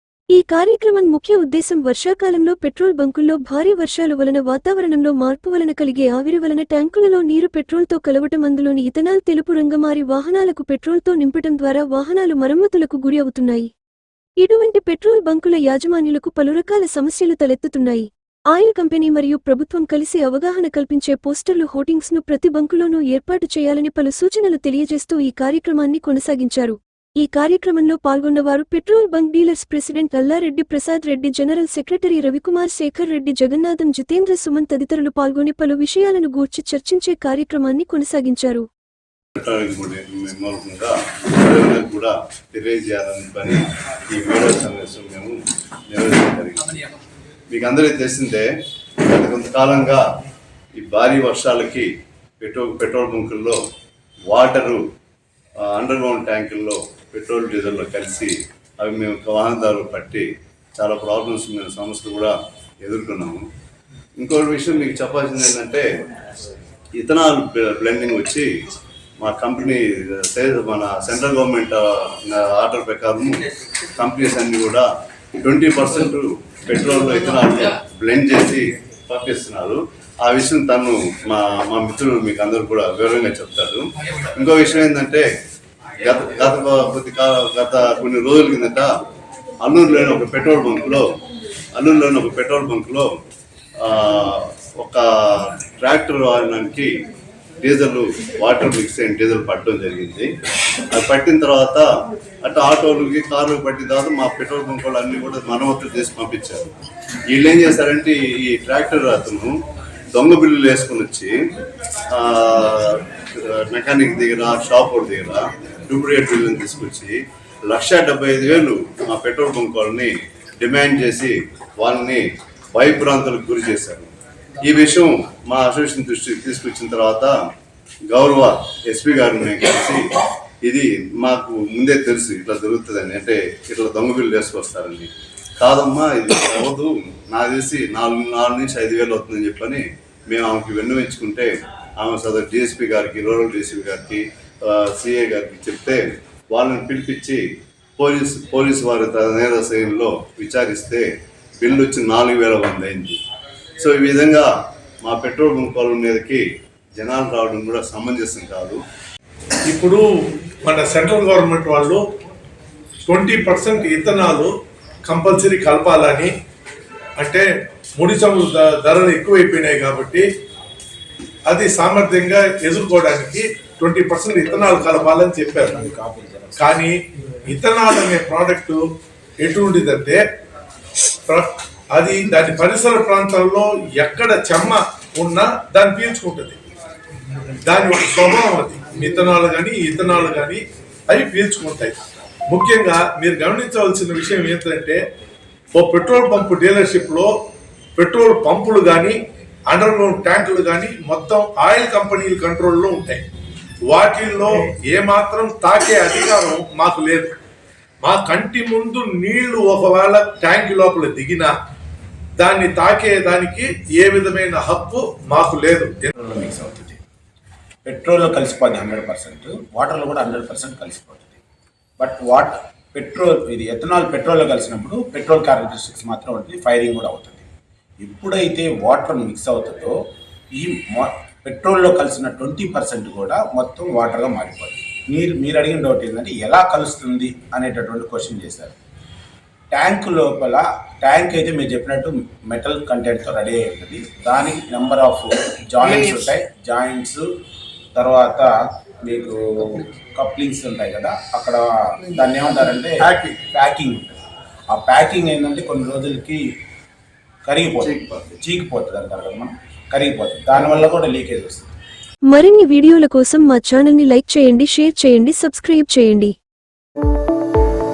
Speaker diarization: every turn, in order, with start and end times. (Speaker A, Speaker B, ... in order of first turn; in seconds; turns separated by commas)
Speaker A: 0.3-13.7, Speaker A: 14.4-38.7, Speaker B: 39.4-45.4, Speaker B: 45.9-46.7, Speaker B: 47.5-48.5, Speaker B: 49.0-50.0, Speaker B: 50.8-51.9, Speaker B: 52.4-53.6, Speaker B: 54.3-54.8, Speaker B: 55.6-63.4, Speaker B: 64.2-65.9, Speaker B: 67.0-68.5, Speaker B: 69.2-73.4, Speaker B: 73.9-74.9, Speaker B: 75.4-83.8, Speaker B: 84.3-85.3, Speaker B: 86.0-88.9, Speaker B: 89.6-91.0, Speaker B: 91.8-93.1, Speaker B: 93.8-96.9, Speaker B: 97.6-100.3, Speaker B: 100.9-101.9, Speaker B: 102.4-106.6, Speaker B: 107.3-109.6, Speaker B: 110.1-111.3, Speaker B: 112.1-124.1, Speaker B: 124.6-127.3, Speaker B: 128.1-130.0, Speaker B: 130.6-147.4, Speaker B: 148.0-151.1, Speaker B: 151.6-153.2, Speaker B: 153.8-154.5, Speaker B: 155.0-156.4, Speaker B: 157.0-158.8, Speaker C: 159.7-160.0, Speaker C: 160.6-162.0, Speaker C: 163.1-164.5, Speaker C: 165.0-166.3, Speaker C: 167.2-167.4, Speaker C: 168.0-170.3, Speaker C: 171.5-175.8, Speaker D: 175.5-176.8, Speaker C: 176.6-178.8, Speaker C: 179.4-180.2, Speaker C: 181.3-186.6, Speaker C: 187.6-191.9, Speaker C: 192.5-195.0, Speaker C: 195.7-197.3, Speaker C: 197.9-203.2, Speaker C: 203.9-207.3, Speaker C: 208.0-211.5, Speaker C: 212.4-216.1, Speaker D: 216.1-217.0, Speaker D: 217.8-221.4, Speaker D: 222.0-227.4, Speaker D: 228.0-230.0, Speaker D: 230.6-238.8, Speaker D: 239.7-247.2, Speaker D: 247.9-254.2, Speaker C: 253.0-253.4, Speaker D: 254.7-256.4, Speaker D: 257.4-261.7, Speaker B: 257.8-258.4, Speaker A: 262.3-266.4